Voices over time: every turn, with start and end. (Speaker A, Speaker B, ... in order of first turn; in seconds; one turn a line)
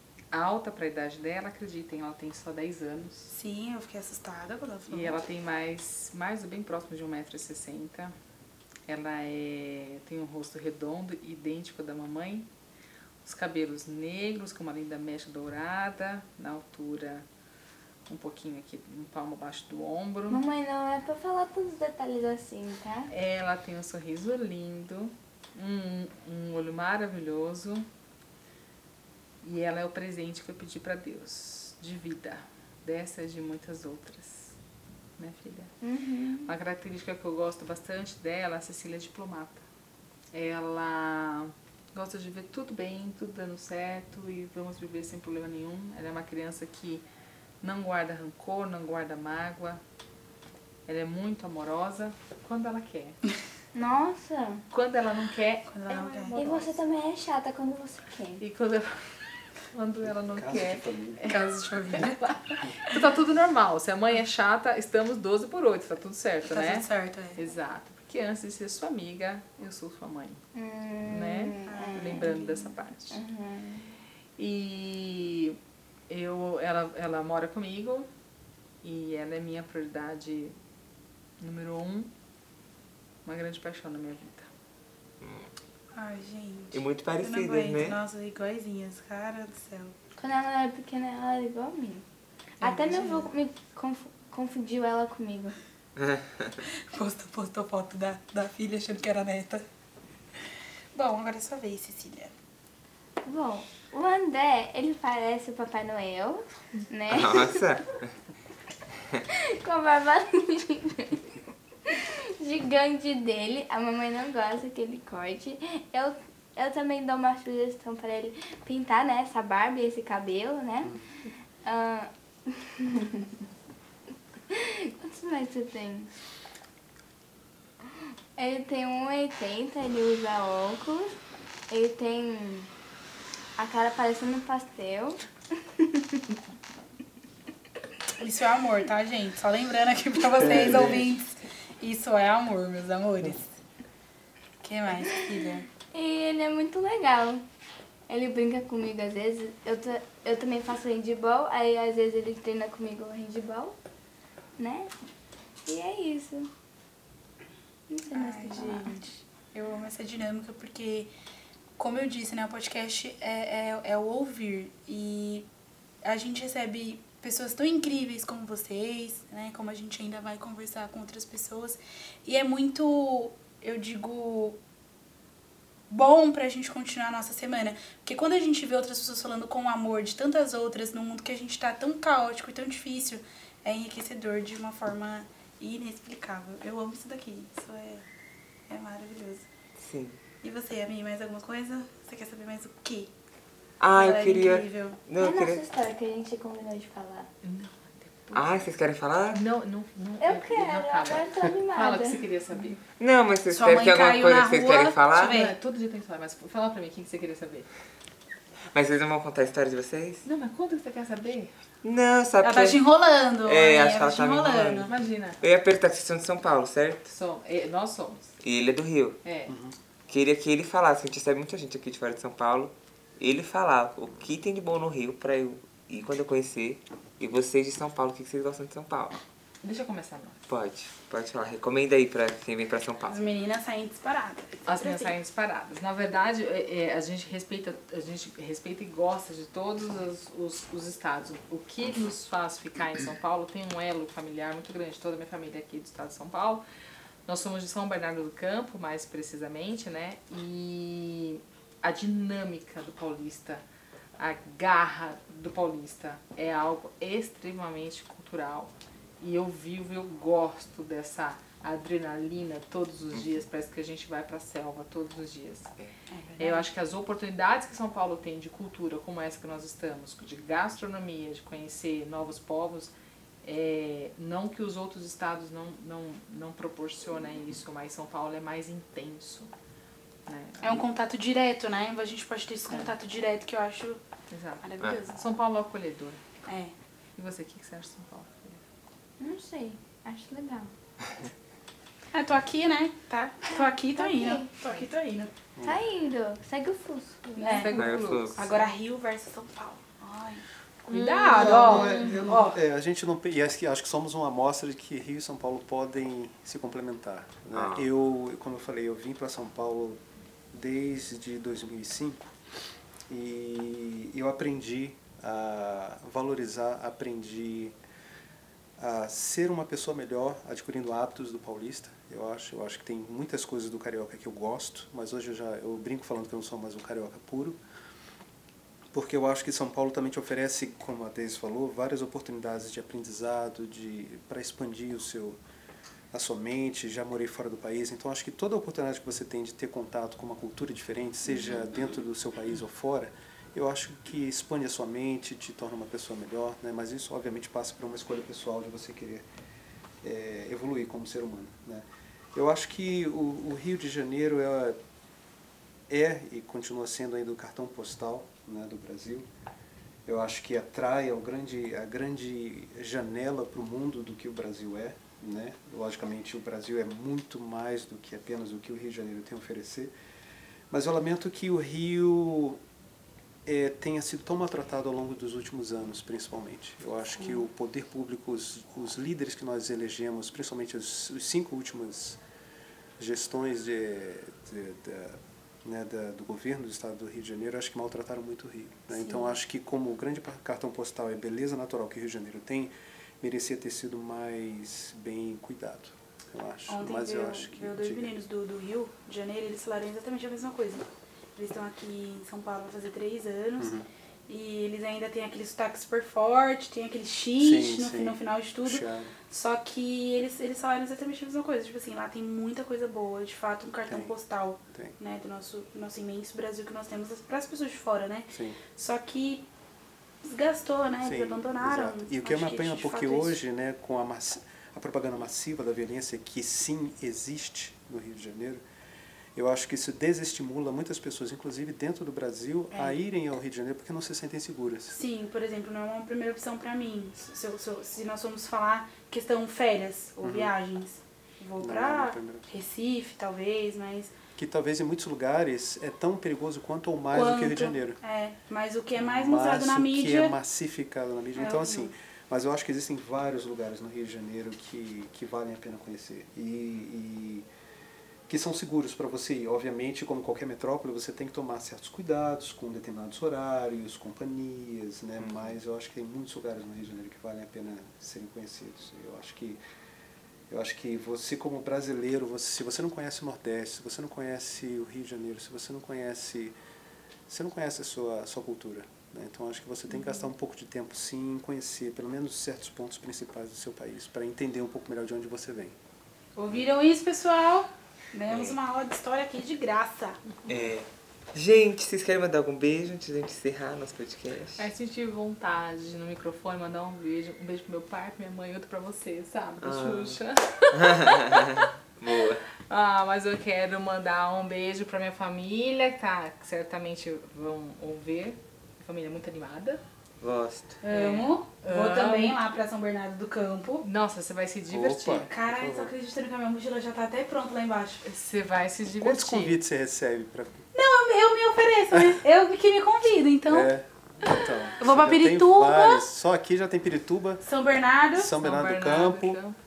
Speaker A: 0.3-3.3
Speaker B: 3.3-5.2
Speaker A: 4.9-8.1
Speaker A: 8.9-12.5
Speaker A: 13.2-17.3
Speaker A: 18.1-20.4
Speaker C: 20.3-23.1
Speaker A: 23.1-27.9
Speaker A: 29.4-34.6
Speaker A: 35.2-35.7
Speaker C: 35.8-36.5
Speaker A: 36.5-39.6
Speaker A: 40.3-47.0
Speaker A: 47.6-49.8
Speaker A: 50.9-53.2
Speaker C: 53.7-54.6
Speaker A: 54.7-56.3
Speaker B: 55.7-56.8
Speaker C: 55.9-58.4
Speaker A: 58.4-59.0
Speaker A: 59.7-70.4
Speaker D: 60.2-61.3
Speaker B: 61.3-62.2
Speaker B: 66.5-67.4
Speaker C: 70.5-74.0
Speaker A: 71.1-73.2
Speaker B: 71.7-72.4
Speaker A: 74.4-75.6
Speaker A: 76.1-78.1
Speaker A: 78.8-80.5
Speaker A: 81.4-82.1
Speaker A: 83.2-84.5
Speaker E: 85.2-85.5
Speaker B: 85.9-90.0
Speaker E: 86.7-88.0
Speaker C: 90.2-92.0
Speaker C: 92.6-95.6
Speaker B: 92.6-93.3
Speaker E: 96.0-96.6
Speaker B: 96.9-99.6
Speaker B: 101.0-102.3
Speaker C: 103.2-107.8
Speaker E: 107.1-108.0
Speaker C: 109.3-121.0
Speaker C: 121.7-123.4
Speaker C: 124.5-126.1
Speaker C: 128.4-131.1
Speaker C: 131.7-132.7
Speaker C: 133.6-136.3
Speaker B: 138.2-143.5
Speaker D: 140.4-141.1
Speaker B: 144.6-145.7
Speaker C: 145.8-147.4
Speaker C: 148.1-153.8
Speaker C: 154.6-154.9
Speaker C: 155.7-156.5
Speaker C: 157.9-158.9
Speaker B: 158.1-161.1
Speaker B: 161.8-165.5
Speaker B: 166.0-174.6
Speaker B: 175.9-188.0
Speaker B: 188.7-189.4
Speaker E: 189.8-190.2
Speaker B: 190.4-193.1
Speaker E: 193.8-195.7
Speaker B: 193.9-195.0
Speaker C: 195.1-197.3
Speaker A: 197.4-198.7
Speaker E: 198.3-199.4
Speaker A: 199.3-202.8
Speaker C: 200.2-202.2
Speaker E: 203.0-205.4
Speaker B: 203.5-205.6
Speaker A: 205.1-207.7
Speaker E: 208.7-210.2
Speaker A: 210.2-211.5
Speaker E: 211.8-212.8
Speaker B: 212.4-214.9
Speaker E: 213.4-217.1
Speaker A: 214.9-215.4
Speaker A: 217.1-218.3
Speaker E: 218.4-219.2
Speaker A: 219.2-219.5
Speaker D: 219.5-219.8
Speaker E: 220.1-229.2
Speaker A: 229.6-230.4
Speaker E: 230.5-233.2
Speaker B: 233.1-235.1
Speaker A: 234.7-246.6
Speaker A: 247.3-253.6
Speaker A: 254.2-265.7
Speaker B: 266.1-266.7
Speaker A: 266.4-272.9
Speaker A: 273.4-279.5
Speaker A: 280.3-280.8
Speaker B: 280.6-284.0
Speaker A: 282.7-283.0
Speaker A: 284.3-286.2
Speaker B: 284.6-285.2
Speaker B: 286.5-286.7
Speaker A: 287.2-288.6
Speaker C: 289.2-290.7
Speaker B: 292.1-295.3
Speaker C: 293.5-294.6
Speaker C: 295.6-297.7
Speaker B: 297.4-302.6
Speaker A: 297.6-298.5
Speaker E: 297.7-298.7
Speaker A: 300.9-302.0
Speaker D: 301.2-310.0
Speaker C: 301.8-302.2
Speaker E: 307.5-307.9
Speaker D: 310.5-312.2
Speaker D: 313.1-317.8
Speaker D: 318.8-327.6
Speaker D: 328.9-335.4
Speaker D: 336.1-349.3
Speaker D: 350.0-354.8
Speaker D: 355.9-359.3
Speaker D: 360.1-369.9
Speaker D: 370.7-372.6
Speaker D: 373.5-382.2
Speaker D: 383.0-398.1
Speaker B: 388.9-389.4
Speaker B: 396.7-403.7
Speaker D: 403.6-403.9
Speaker B: 404.3-419.5
Speaker D: 407.4-409.1
Speaker D: 413.9-414.1
Speaker D: 414.7-415.0
Speaker D: 418.3-418.6
Speaker B: 420.2-423.4
Speaker D: 421.0-428.6
Speaker D: 429.4-435.0
Speaker B: 432.7-433.0
Speaker B: 434.9-444.1
Speaker D: 440.2-440.5
Speaker D: 441.6-442.5
Speaker D: 444.4-448.0
Speaker B: 447.1-450.4
Speaker D: 449.0-457.5
Speaker B: 451.4-451.9
Speaker D: 458.3-469.6
Speaker E: 465.2-465.6
Speaker D: 470.5-476.6
Speaker D: 477.3-485.8
Speaker B: 486.4-490.2
Speaker E: 488.3-488.6
Speaker E: 490.5-494.7
Speaker A: 494.6-501.7
Speaker E: 499.6-500.2
Speaker E: 500.8-502.4
Speaker A: 502.7-509.8
Speaker E: 510.2-510.8
Speaker B: 510.8-513.8
Speaker A: 510.9-512.4
Speaker A: 513.8-515.3
Speaker D: 514.7-515.9
Speaker B: 515.3-518.0
Speaker A: 518.0-519.6
Speaker D: 519.0-520.6
Speaker B: 520.7-523.7
Speaker D: 523.5-527.5
Speaker B: 524.8-526.0
Speaker B: 527.4-528.3
Speaker D: 528.1-529.4
Speaker A: 528.3-529.6